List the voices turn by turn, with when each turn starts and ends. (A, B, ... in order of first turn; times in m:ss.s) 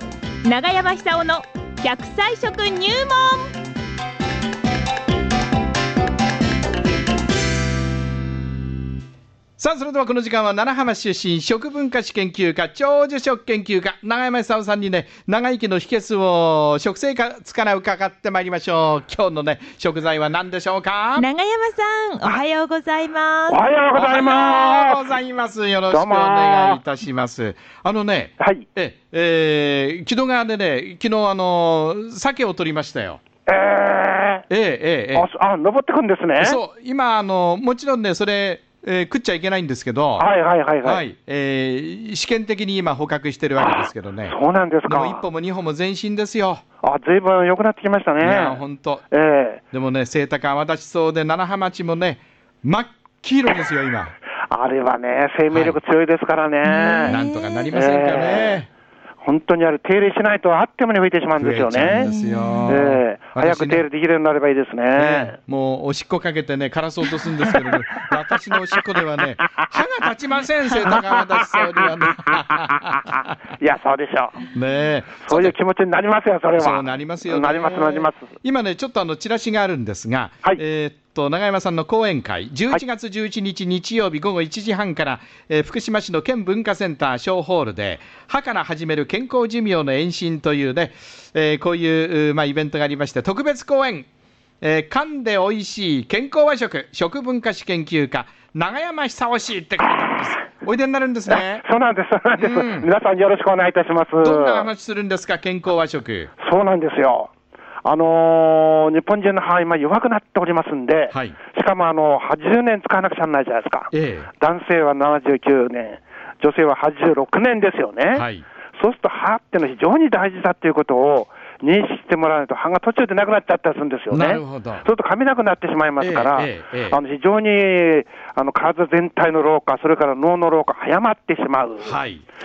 0:00.4-0:03.5 A
0:09.6-0:21.3 B
0:21.2-0:23.6 A
0:23.5-0:25.2 C
0:23.9-0:33.2 B
0:25.9-0:26.8 C
0:28.4-0:28.7 C
0:33.5-0:34.5 C
0:34.5-0:35.3 B
0:35.2-0:36.6 C
0:36.4-0:40.3 B
0:40.2-0:41.0 C
0:40.8-0:44.4 B
0:43.6-0:45.3 C
0:44.9-0:46.6 B
0:46.8-0:49.6 C
0:48.2-0:49.0 B
0:49.7-0:54.2 B
0:54.5-0:57.2 C
0:55.5-0:55.8 B
0:56.6-0:57.7 A
0:57.1-0:58.7 B
0:57.7-0:58.6 C
0:59.2-1:02.1 C
1:01.4-1:03.8 B
1:01.9-1:02.7 A
1:02.7-1:05.4 C
1:05.0-1:13.3 B
1:07.4-1:07.8 C
1:10.8-1:13.0 C
1:13.5-1:14.5 C
1:14.5-1:15.6 B
1:15.2-1:18.3 C
1:16.6-1:34.1 B
1:34.6-1:41.6 B
1:41.3-1:44.7 C
1:42.4-1:42.9 B
1:44.2-1:46.3 B
1:46.4-1:47.3 C
1:47.8-2:12.0 C
1:53.9-1:54.3 B
1:58.1-1:58.5 B
2:04.1-2:04.9 B
2:06.0-2:07.0 B
2:11.8-2:12.2 B